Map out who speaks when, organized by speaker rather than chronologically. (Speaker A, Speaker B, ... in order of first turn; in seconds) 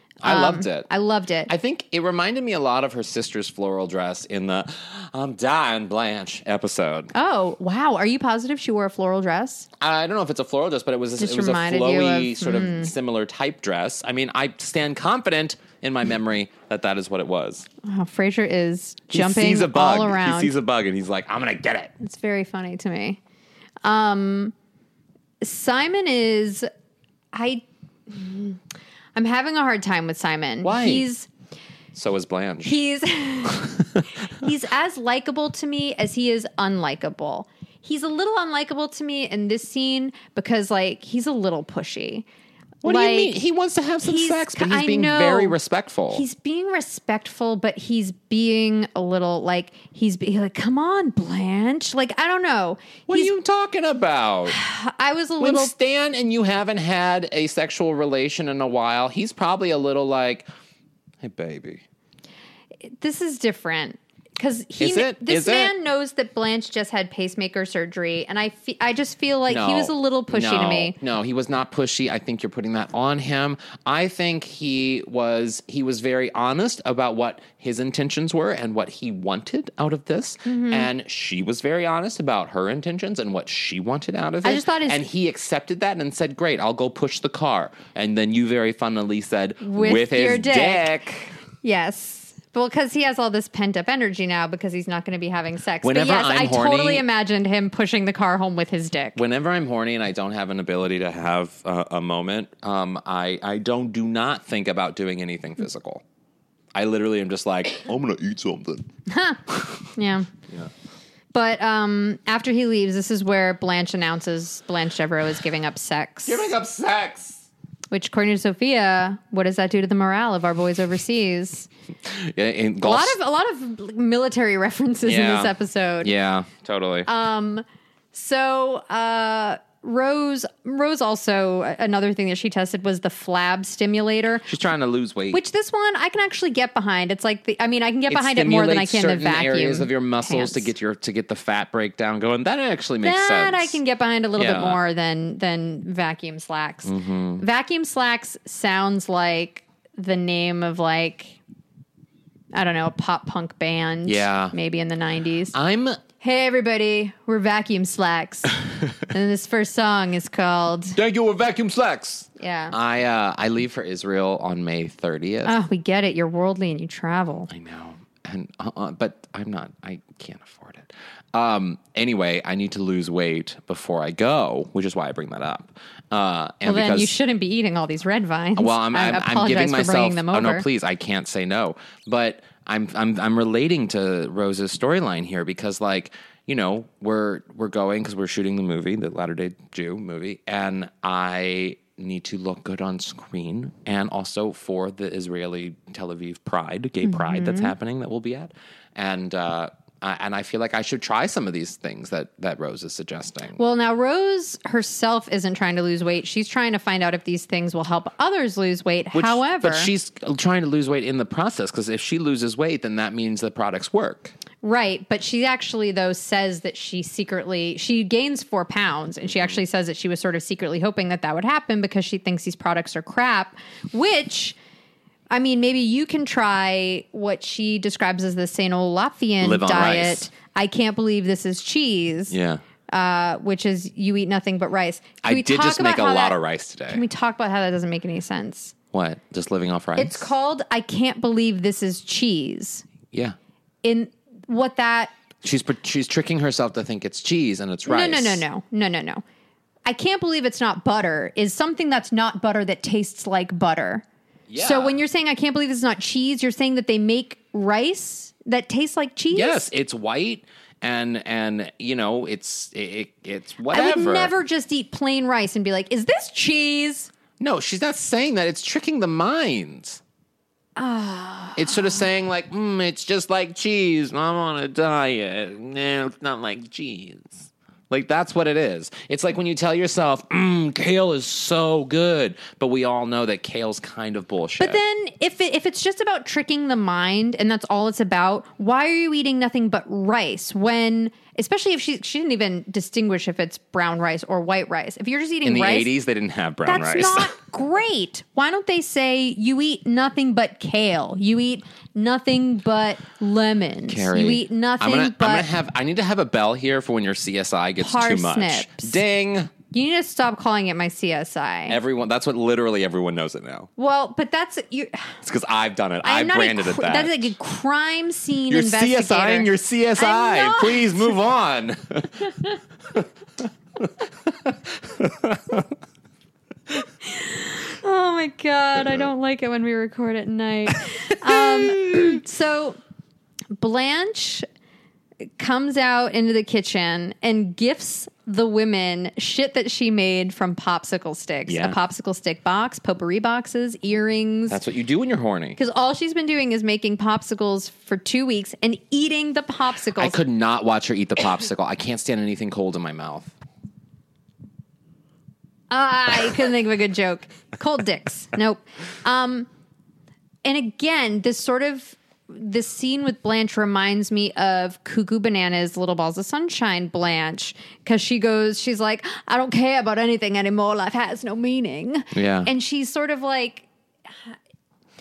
Speaker A: 0.2-0.9, 1.5-7.1, 9.8-17.7, 19.1-21.9, 30.6-31.1, 31.9-32.8, 42.8-46.2, 53.1-54.6, 55.4-60.5, 61.2-61.8, 64.8-65.7, 69.5-91.3, 95.8-97.0, 99.2-106.0, 106.7-108.9, 116.2-117.5, 122.0-123.2, 125.0-127.1, 134.4-135.4, 138.1-143.8, 144.3-144.8, 146.8-147.4, 154.0-154.5, 155.5-156.0, 160.9-165.6, 167.5-177.1, 178.6-203.6, 209.1-214.3, 229.4-230.3, 232.3-232.6, 235.2-237.0, 238.9-240.3, 243.1-243.3, 245.4-248.4, 254.5-255.0, 259.3-264.3, 267.4-270.0, 271.6-284.8, 295.4-297.3, 303.9-309.5, 311.7-313.7, 315.2-317.3, 318.5-323.1, 323.8-325.7, 331.2-332.2, 341.5-341.8, 344.5-345.6, 349.9-353.3, 372.1-372.5
Speaker B: 0.2-1.5, 7.1-9.7, 11.2-12.9, 17.8-20.5, 22.0-23.2, 23.8-24.5, 25.4-26.7, 27.3-28.6, 29.1-31.3, 32.6-42.2, 42.8-43.4, 44.0-45.5, 46.1-53.3, 54.5-55.7, 62.8-71.0, 80.5-80.9, 84.4-85.0, 89.6-90.9, 91.6-99.2, 109.1-110.3, 111.3-116.5, 117.9-121.7, 122.8-126.1, 127.0-134.5, 135.3-140.7, 143.0-151.4, 152.5-155.5, 156.2-161.0, 162.4-162.7, 165.4-167.5, 176.6-180.6, 197.0-197.7, 203.6-209.9, 214.6-224.6, 225.3-232.3, 232.9-238.7, 239.9-242.8, 243.8-245.1, 247.9-249.2, 249.8-254.0, 254.6-259.7, 263.7-267.1, 270.8-271.9, 284.6-295.9, 296.6-305.5, 307.8-309.0, 309.7-311.8, 313.8-315.2, 316.0-321.1, 327.0-332.8, 333.6-334.4, 335.4-344.6, 345.6-350.2, 355.7-359.5, 360.4-373.7